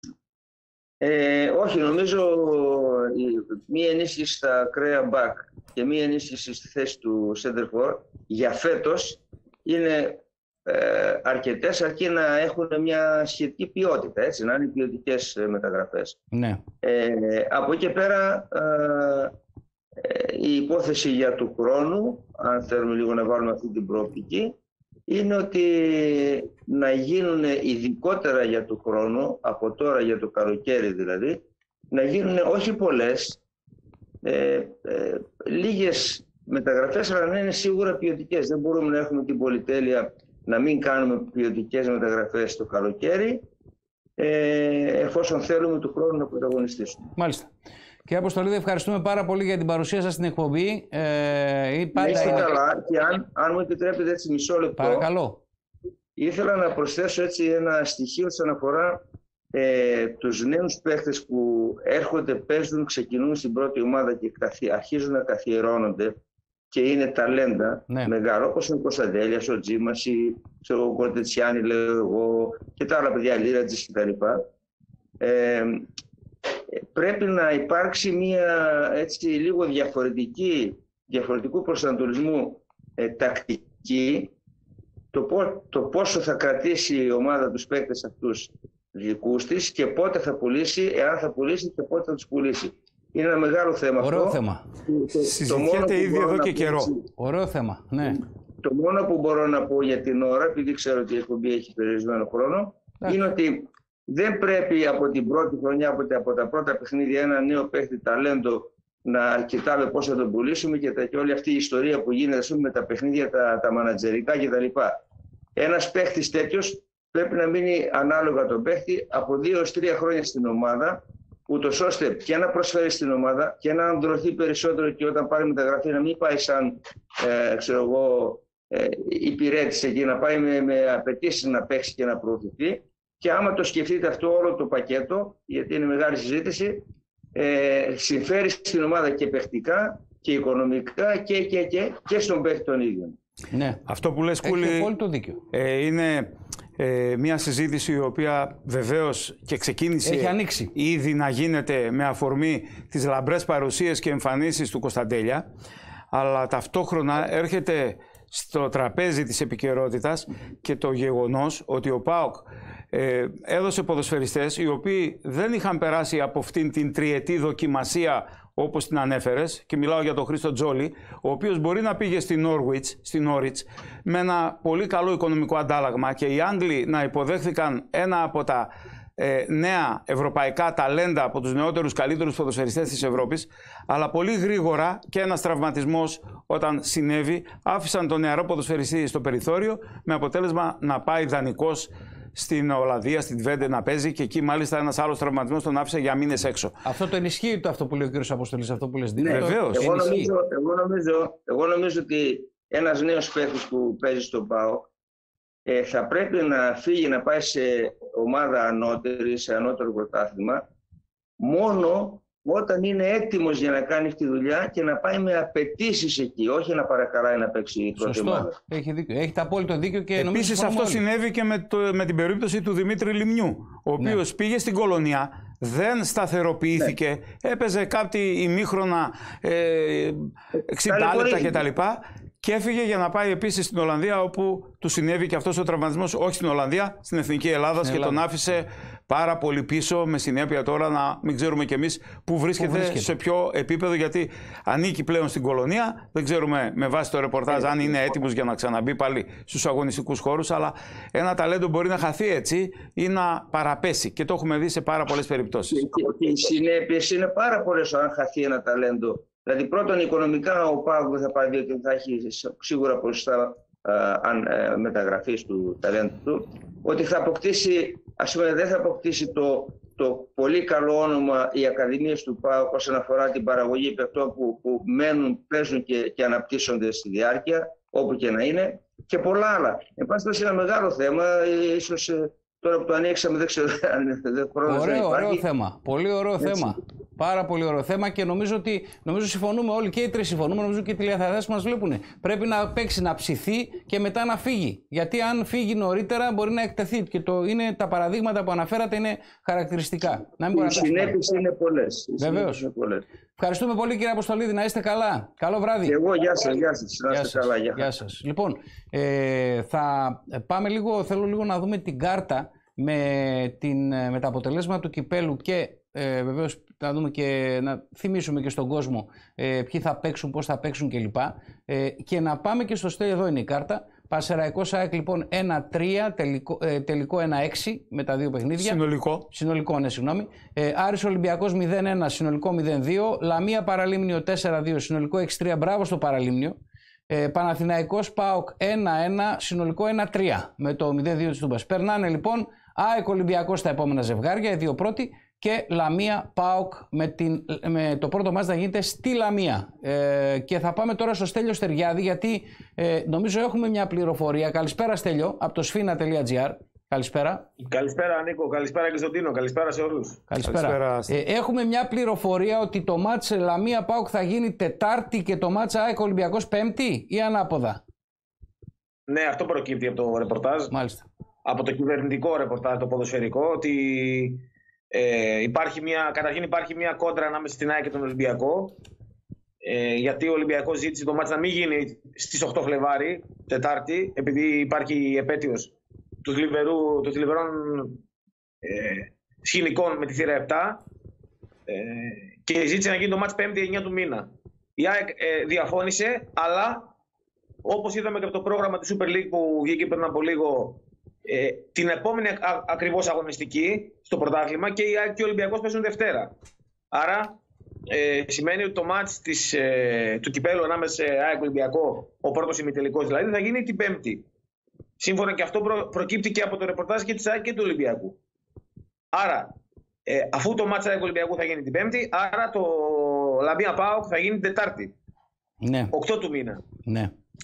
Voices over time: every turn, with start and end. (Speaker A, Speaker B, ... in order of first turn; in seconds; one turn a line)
Speaker A: 1.0-16.2
Speaker B: 16.3-16.6
Speaker A: 16.8-19.3
Speaker A: 20.0-24.5
Speaker A: 25.1-31.4
Speaker A: 31.9-33.4
Speaker A: 34.2-43.4
Speaker A: 44.2-47.0
Speaker B: 47.2-47.5
Speaker B: 48.1-52.5
Speaker A: 52.0-55.1
Speaker B: 54.8-55.4
Speaker A: 56.2-59.0
Speaker A: 59.5-66.1
Speaker A: 66.7-74.4
Speaker A: 75.2-75.9
Speaker A: 76.7-84.3
Speaker A: 85.1-97.1
Speaker B: 94.0-94.7
Speaker C: 95.3-96.9
Speaker B: 97.2-98.2
Speaker A: 98.1-115.0
Speaker A: 115.6-136.8
Speaker A: 137.3-143.2
Speaker B: 143.5-143.8
Speaker C: 143.9-144.9
Speaker B: 144.4-145.4
Speaker C: 145.5-155.5
Speaker B: 150.0-150.7
Speaker C: 156.1-196.8
Speaker B: 196.8-200.3
Speaker A: 199.2-204.9
Speaker C: 199.3-199.9
Speaker A: 205.7-210.6
Speaker A: 211.4-218.6
Speaker B: 218.0-221.0
Speaker C: 220.2-255.8
Speaker A: 230.8-231.6
Speaker B: 237.8-238.2
Speaker B: 242.6-243.1
Speaker A: 247.5-248.1
Speaker A: 255.7-285.4
Speaker B: 284.7-301.2
Speaker A: 286.4-286.7
Speaker A: 300.5-303.0
Speaker B: 302.2-302.6
Speaker B: 303.4-306.0
Speaker A: 305.9-307.9
Speaker B: 307.1-336.6
Speaker C: 328.6-329.3
Speaker B: 337.1-357.5
Speaker D: 357.6-360.2
Speaker B: 360.3-367.8
Speaker C: 360.4-361.2
Speaker D: 369.1-370.7
Speaker B: 370.7-371.1
Speaker D: 371.4-374.4
Speaker D: 374.9-378.8
Speaker D: 379.6-385.7
Speaker D: 386.2-388.0
Speaker D: 388.6-390.8
Speaker D: 391.7-396.9
Speaker D: 397.6-406.3
Speaker D: 406.9-407.3
Speaker D: 407.9-414.2
Speaker D: 415.0-418.2
Speaker D: 419.1-419.5
Speaker D: 420.1-424.9
Speaker B: 425.6-425.9
Speaker D: 425.9-426.6
Speaker B: 426.9-427.1